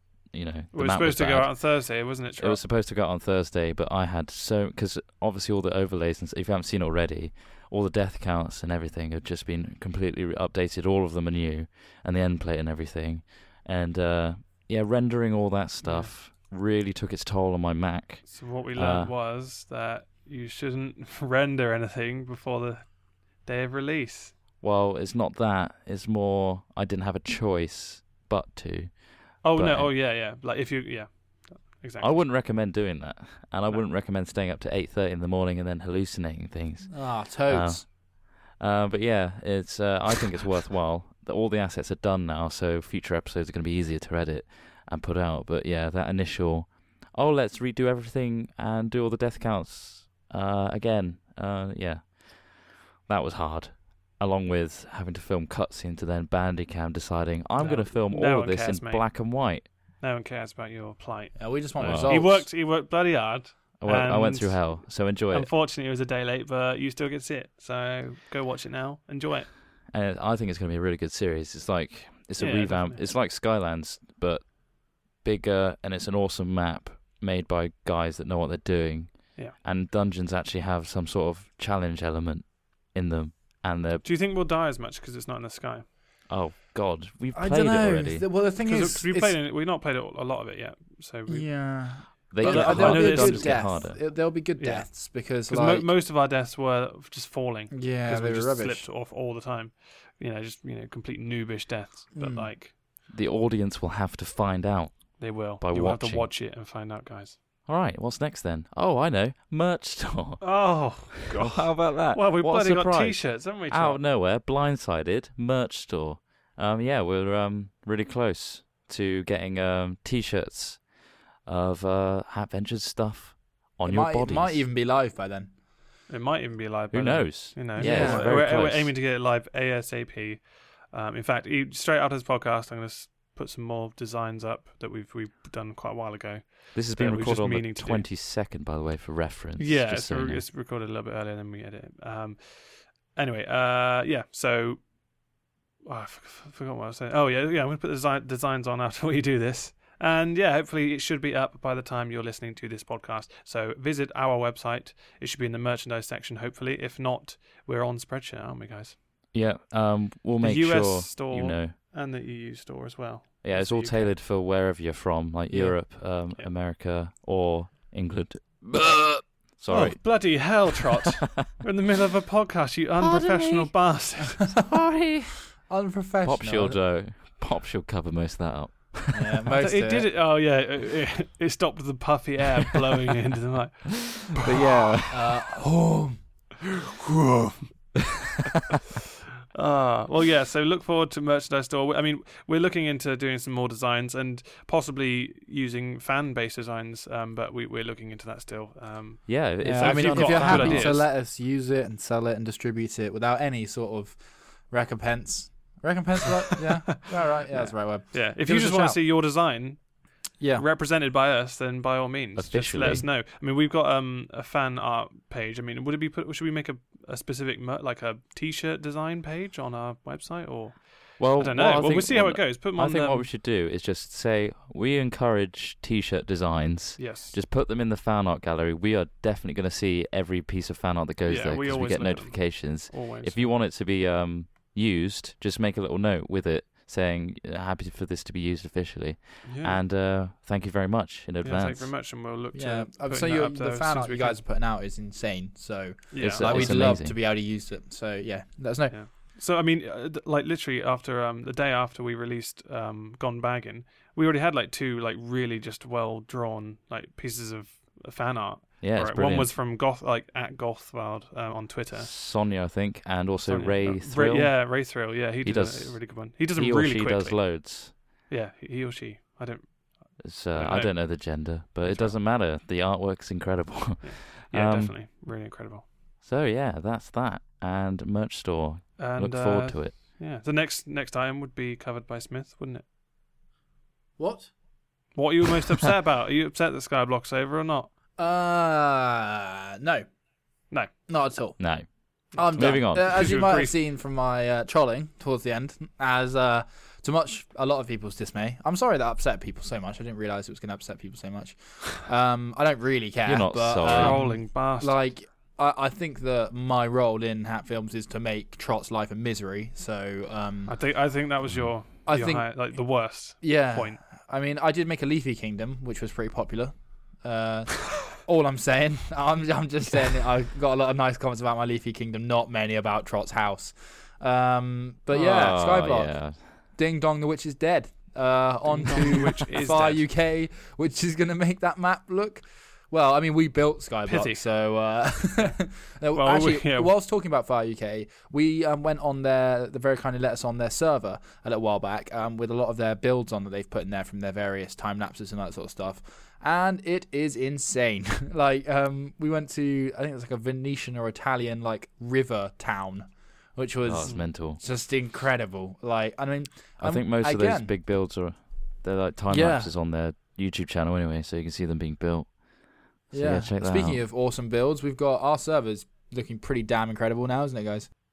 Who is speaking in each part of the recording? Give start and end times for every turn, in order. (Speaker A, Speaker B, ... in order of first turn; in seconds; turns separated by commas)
Speaker A: 0.3-19.1, Speaker B: 0.7-2.6, Speaker B: 15.8-16.1, Speaker B: 18.2-24.4, Speaker A: 24.6-29.9, Speaker B: 29.4-32.2, Speaker A: 32.0-59.7, Speaker C: 36.9-37.9, Speaker B: 57.6-59.2, Speaker B: 60.0-69.5, Speaker C: 61.4-62.5, Speaker A: 61.8-62.2, Speaker A: 63.8-65.5, Speaker A: 69.9-74.6, Speaker B: 72.4-73.1, Speaker A: 75.2-84.0, Speaker B: 84.0-85.9, Speaker A: 86.3-88.3, Speaker C: 87.3-89.4, Speaker B: 88.6-91.7, Speaker C: 91.3-95.9, Speaker A: 92.3-94.0, Speaker B: 92.4-93.7, Speaker B: 94.6-102.8, Speaker C: 97.7-98.9, Speaker C: 102.2-102.5, Speaker A: 103.1-106.3, Speaker B: 105.2-107.4, Speaker A: 107.7-120.9, Speaker B: 110.4-114.0, Speaker A: 121.5-124.7, Speaker C: 123.8-125.5, Speaker B: 126.1-138.1, Speaker A: 126.9-128.9, Speaker C: 127.8-128.4, Speaker A: 136.7-140.4, Speaker B: 139.6-144.9, Speaker B: 145.9-159.0, Speaker A: 159.3-161.8, Speaker B: 160.4-164.2, Speaker A: 163.4-171.1, Speaker C: 165.5-165.8, Speaker B: 169.7-174.5, Speaker A: 173.0-173.7, Speaker A: 174.7-175.5, Speaker C: 175.6-176.8, Speaker A: 176.2-179.5, Speaker C: 179.1-180.1, Speaker B: 179.6-184.3, Speaker A: 184.3-185.4, Speaker C: 185.1-186.2, Speaker B: 187.2-187.6, Speaker B: 189.5-201.1, Speaker A: 199.3-201.0, Speaker C: 199.6-209.0, Speaker B: 207.1-209.9, Speaker C: 210.4-210.7, Speaker B: 210.5-223.3, Speaker A: 212.4-213.1, Speaker A: 221.2-241.9, Speaker B: 227.0-227.4, Speaker B: 231.3-233.6, Speaker B: 239.4-239.8, Speaker B: 241.4-244.4, Speaker C: 242.5-249.0, Speaker B: 246.1-246.8, Speaker A: 246.2-247.2, Speaker B: 248.9-262.1, Speaker A: 258.8-259.5, Speaker A: 261.9-267.9, Speaker B: 263.5-267.6, Speaker B: 268.3-272.2, Speaker A: 270.2-274.9, Speaker B: 274.0-275.9, Speaker A: 276.2-280.0, Speaker B: 279.0-282.8, Speaker C: 284.2-284.5, Speaker B: 285.1-287.9, Speaker C: 288.2-290.1, Speaker C: 291.1-310.7, Speaker A: 291.6-293.4, Speaker B: 293.0-293.8, Speaker A: 303.2-304.3, Speaker B: 303.9-305.0, Speaker B: 310.7-314.0, Speaker C: 312.1-312.5, Speaker C: 313.4-357.7, Speaker A: 325.1-326.6, Speaker B: 328.7-330.1, Speaker B: 334.1-334.4, Speaker B: 336.1-336.9, Speaker A: 353.8-354.6, Speaker A: 356.8-362.4, Speaker C: 359.3-359.7, Speaker A: 363.1-364.0, Speaker C: 363.1-367.9